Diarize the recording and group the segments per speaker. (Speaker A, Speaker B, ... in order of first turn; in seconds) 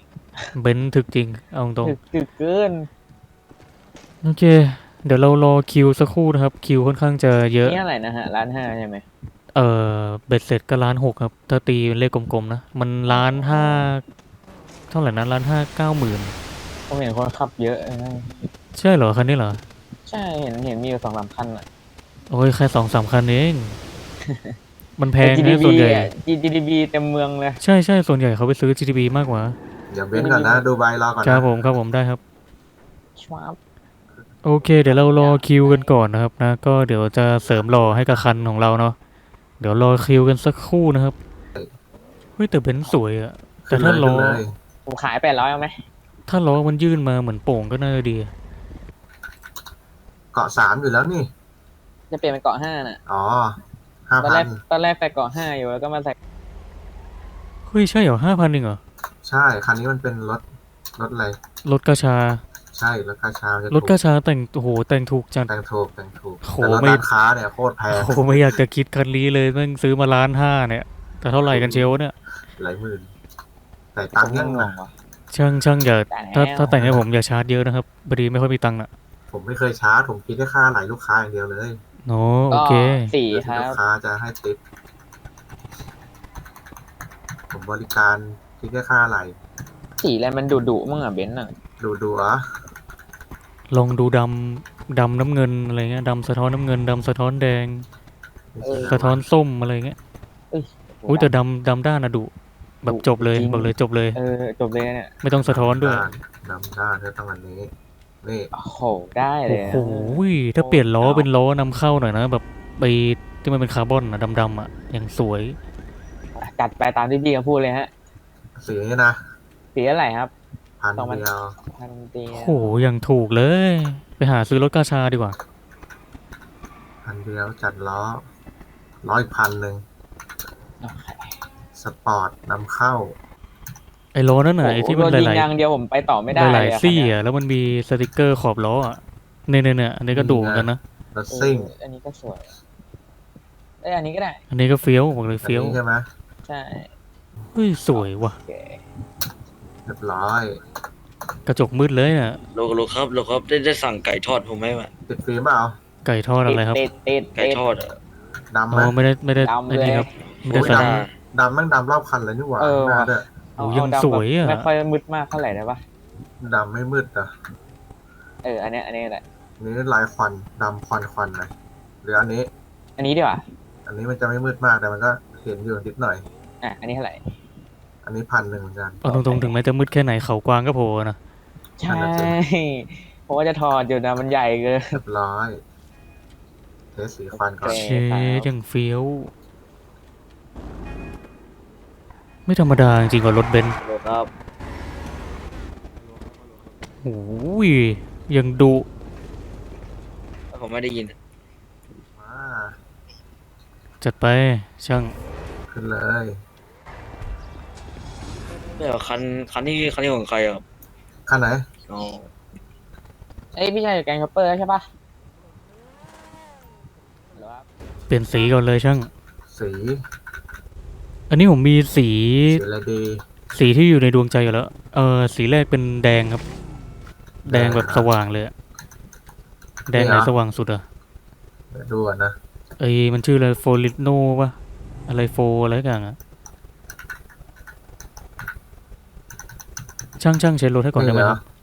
Speaker A: 0.5-2.0, 4.2-7.8, 9.5-14.0, 14.9-16.3, 18.7-19.6, 22.3-23.8, 25.0-26.1, 27.6-29.6, 31.2-32.2, 34.4-39.0, 39.6-41.1, 42.4-44.4, 46.3-48.3, 57.7-58.8, 61.6-62.4, 63.7-65.5, 66.4-67.0, 67.9-72.1, 75.3-78.9, 82.1-83.1, 93.7-97.8, 98.8-100.0, 101.1-102.3, 102.8-104.2, 105.2-106.0, 109.5-115.5, 122.3-125.3, 134.1-135.5, 136.3-140.8, 144.5-145.8, 147.5-148.3, 151.5-152.4, 156.0-156.8, 158.7-161.0, 163.6-164.7, 179.0-181.2, 187.7-189.3, 192.5-193.8, 197.0-198.8, 204.0-205.1, 218.1-219.1, 221.3-222.6, 223.5-226.4, 227.4-228.5, 229.9-230.8, 232.8-234.5, 235.1-236.2, 240.2-241.4
Speaker B: 1.8-2.9, 7.6-9.0, 13.1-13.9, 16.9-18.5, 20.1-21.6, 24.2-24.6, 25.2-27.6, 30.1-30.6, 33.2-33.6, 34.8-35.9, 44.9-45.7, 52.1-53.0, 54.2-56.1, 74.2-74.9, 76.1-76.7, 82.5-83.8, 90.0-91.5, 98.6-99.0, 100.5-101.3, 102.9-105.1, 108.5-111.3, 116.3-117.9, 119.7-120.3, 121.0-122.7, 130.8-131.4, 134.6-137.1, 141.3-142.6, 143.8-144.4, 146.5-146.9, 147.9-148.8, 156.5-157.6, 159.4-160.1, 162.6-165.8, 168.4-169.2, 173.0-173.4, 176.6-177.2, 179.1-179.5, 181.8-184.9, 187.3-188.5, 213.5-214.8, 217.3-217.6
Speaker C: 29.9-31.4, 37.5-38.3, 43.6-44.5, 50.3-51.3, 53.1-54.6, 59.2-60.4, 61.0-61.4, 62.7-64.0, 65.5-68.6, 71.5-71.9, 72.6-73.1, 73.9-74.7, 76.7-77.0, 79.3-81.8, 83.3-84.6, 87.5-89.4, 91.8-92.4, 98.5-99.2, 105.4-107.7, 108.2-108.5, 118.5-119.2, 120.8-121.5, 127.0-128.2, 129.0-129.8, 131.8-133.2, 140.1-141.7, 145.4-146.1, 149.8-150.6, 155.1-155.8, 158.5-158.9, 160.5-163.3, 166.4-167.3, 169.6-171.5, 172.0-172.5, 173.8-176.2, 178.0-179.1, 181.9-182.3, 184.9-185.6, 186.9-187.8, 202.2-202.8, 205.7-206.4, 211.3-211.7, 219.5-220.0, 222.5-223.2, 227.5-228.1, 229.9-230.3, 231.7-232.3, 240.9-241.4
Speaker D: 152.5-154.9, 157.3-158.0, 160.5-161.1, 193.8-194.3, 200.5-201.2, 208.8-210.6, 211.9-212.3